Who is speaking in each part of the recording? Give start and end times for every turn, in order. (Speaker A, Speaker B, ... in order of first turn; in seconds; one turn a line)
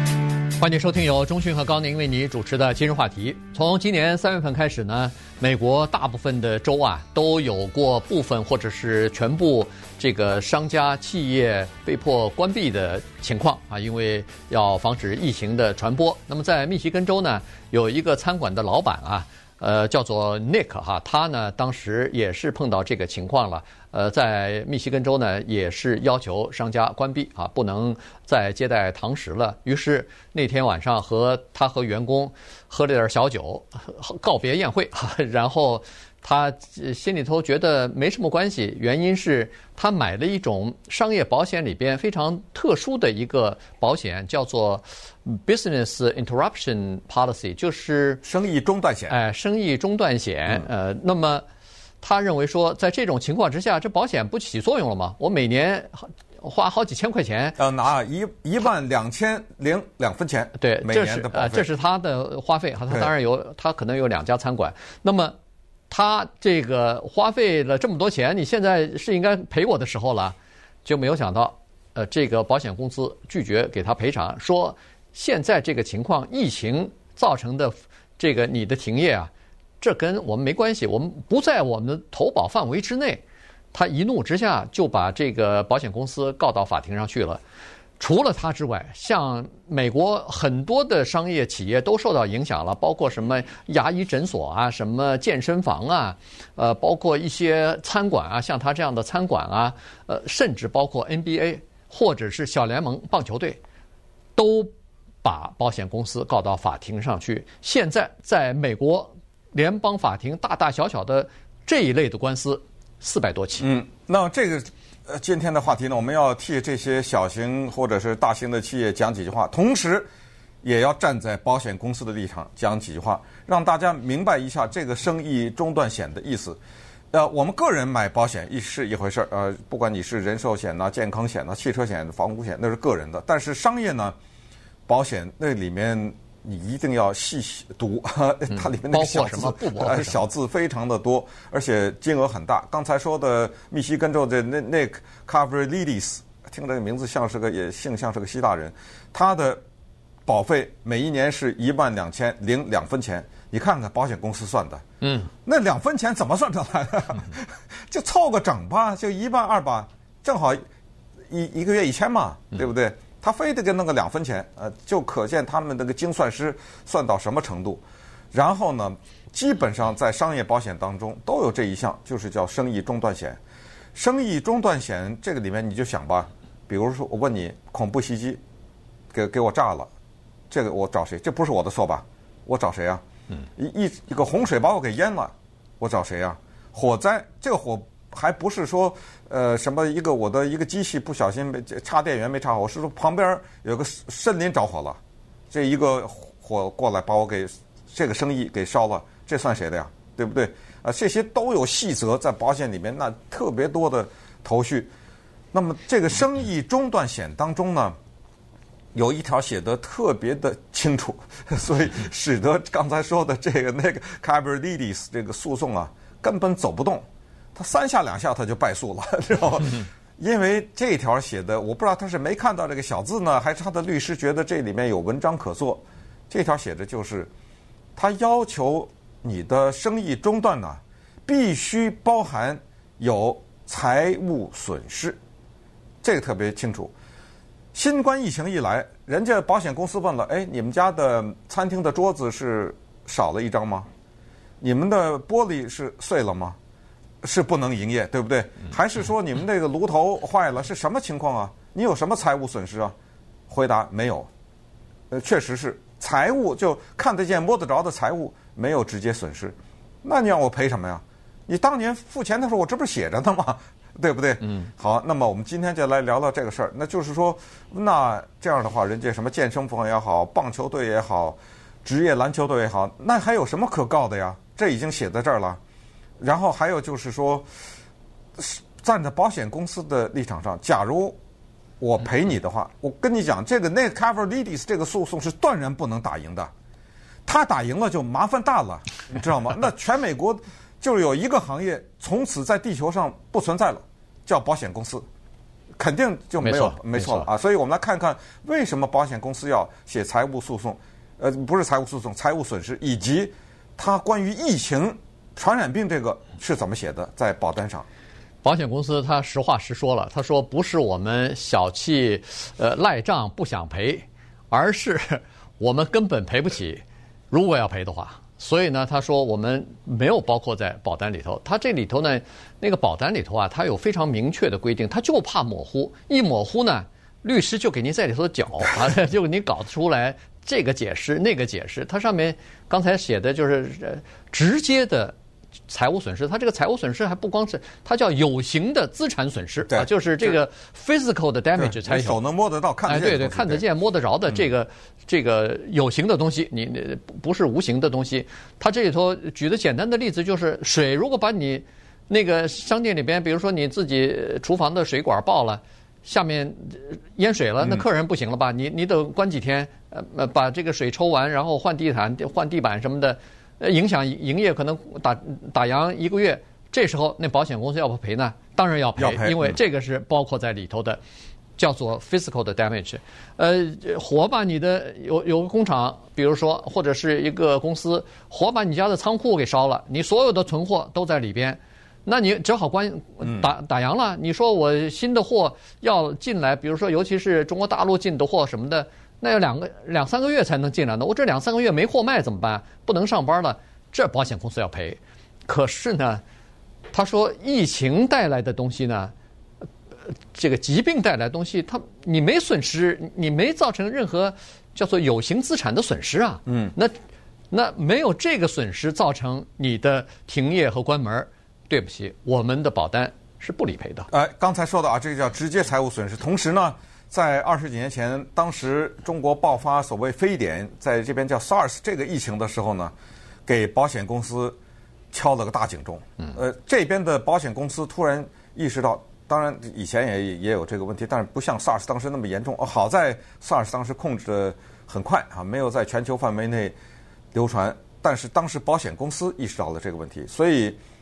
Speaker A: 0.6-48.2
Speaker B: 48.2-49.2
Speaker A: 49.1-51.4
Speaker A: 52.0-57.6
Speaker B: 57.6-61.7
Speaker A: 60.6-65.3
Speaker A: 65.9-87.4
Speaker A: 88.0-103.6
Speaker A: 104.3-104.7
Speaker A: 105.2-113.7
Speaker B: 113.6-120.1
Speaker B: 120.6-126.6
Speaker B: 127.1-134.2
Speaker B: 134.9-149.6
Speaker A: 138.5-140.2
Speaker B: 150.2-154.8
Speaker A: 155.0-155.3
Speaker B: 155.4-160.6
Speaker B: 161.3-173.4
Speaker B: 173.9-178.4
Speaker B: 179.1-179.9
Speaker B: 180.5-183.0
Speaker B: 183.6-195.0
Speaker B: 195.5-204.9
Speaker B: 205.5-207.9
Speaker B: 208.9-227.3
Speaker B: 227.9-235.2
Speaker B: 236.0-236.9
Speaker B: 237.7-243.9
Speaker B: 244.6-246.6
Speaker B: 247.2-252.9
Speaker B: 253.5-254.3
Speaker B: 255.1-275.6
Speaker B: 276.2-277.4
Speaker B: 278.4-281.1
Speaker B: 281.8-286.5
Speaker B: 287.2-295.0
Speaker B: 295.8-307.9
Speaker A: 296.4-297.3
Speaker A: 308.4-335.1
Speaker A: 335.7-342.2
Speaker B: 339.7-340.4
Speaker B: 341.6-343.6
Speaker A: 342.9-371.0
Speaker B: 357.6-357.8
Speaker B: 369.0-369.6
Speaker A: 371.6-396.2
Speaker B: 383.2-383.5
Speaker A: 396.9-399.1
Speaker A: 400.3-406.9
Speaker B: 406.5-406.7
Speaker A: 407.5-414.1
Speaker B: 414.1-422.9
Speaker B: 423.4-424.6
Speaker B: 425.1-436.7
Speaker B: 437.3-440.8